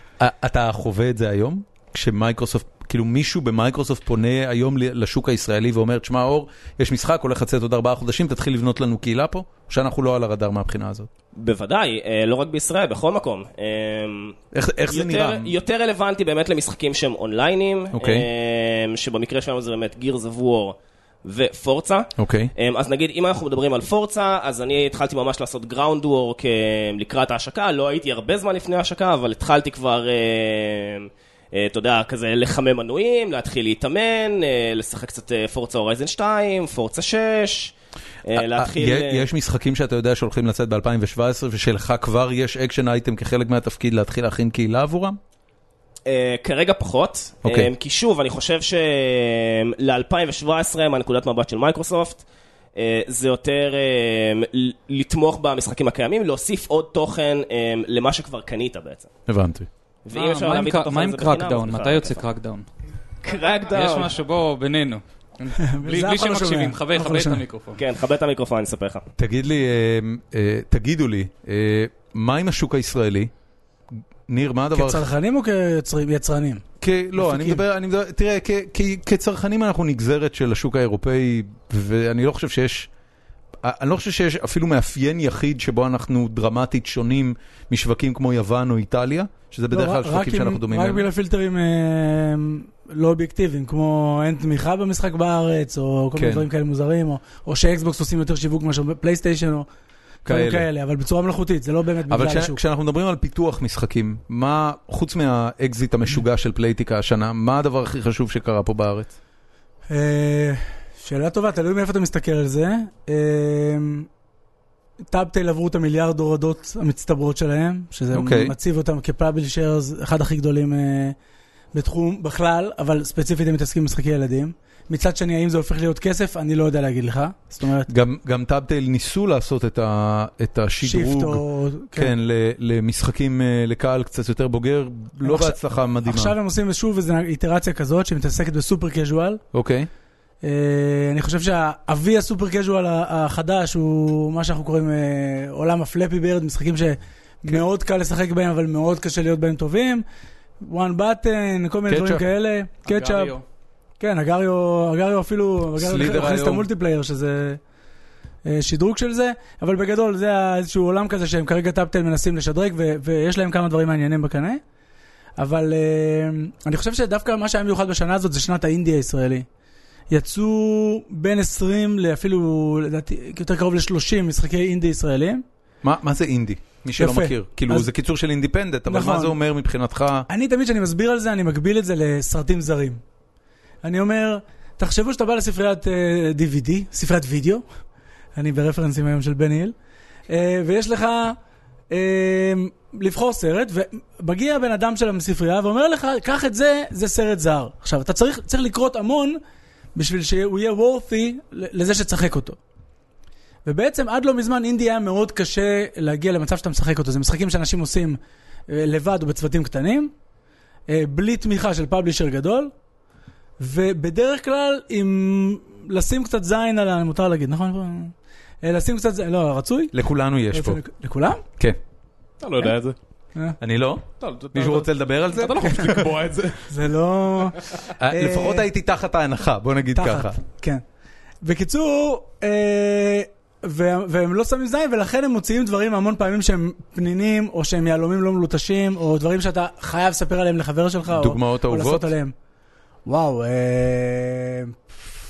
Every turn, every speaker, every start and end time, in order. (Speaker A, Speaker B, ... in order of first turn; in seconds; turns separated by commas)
Speaker A: 0.2-11.1, Speaker B: 11.3-37.7, Speaker A: 14.5-15.5, Speaker A: 17.9-18.3, Speaker A: 22.2-22.5, Speaker B: 38.2-39.2, Speaker A: 38.3-45.2, Speaker B: 46.0-52.2, Speaker A: 47.4-47.7, Speaker B: 52.8-59.1, Speaker A: 59.3-59.7, Speaker B: 60.0-62.2, Speaker C: 60.1-62.6, Speaker B: 63.2-64.1, Speaker C: 63.7-67.8, Speaker D: 65.6-67.4, Speaker B: 67.8-69.0, Speaker A: 69.2-73.3, Speaker A: 74.3-75.0, Speaker D: 74.7-76.6, Speaker A: 76.8-82.9, Speaker D: 77.2-77.6, Speaker A: 83.6-91.1, Speaker D: 89.7-99.7, Speaker A: 96.1-96.5, Speaker A: 100.2-100.7, Speaker D: 100.2-102.6, Speaker A: 102.1-109.1, Speaker D: 109.9-114.1, Speaker D: 115.1-121.2, Speaker A: 118.1-118.5, Speaker D: 121.7-127.9, Speaker A: 127.9-131.4, Speaker D: 130.8-132.1, Speaker A: 131.9-136.3, Speaker D: 135.2-139.4, Speaker A: 139.5-139.9, Speaker D: 140.4-150.0, Speaker D: 150.6-153.3, Speaker A: 151.9-152.2, Speaker C: 152.8-153.4, Speaker D: 154.0-157.6, Speaker A: 155.8-156.7, Speaker D: 158.4-164.6, Speaker D: 165.4-169.4, Speaker D: 170.1-175.4, Speaker A: 175.8-180.3, Speaker D: 177.0-177.9, Speaker D: 178.9-179.3, Speaker D: 180.3-183.0, Speaker D: 183.8-187.6, Speaker D: 188.3-189.7, Speaker D: 190.3-191.4, Speaker D: 191.9-199.4, Speaker D: 199.9-202.6, Speaker D: 203.6-210.1, Speaker D: 210.9-212.7, Speaker D: 213.6-219.9, Speaker A: 219.9-220.8, Speaker D: 220.5-221.4, Speaker E: 222.4-222.9, Speaker A: 223.6-226.1, Speaker E: 224.2-226.7, Speaker D: 226.7-228.7, Speaker A: 228.0-230.4, Speaker D: 229.9-230.8, Speaker D: 231.4-242.3, Speaker A: 241.1-242.1, Speaker D: 243.1-245.2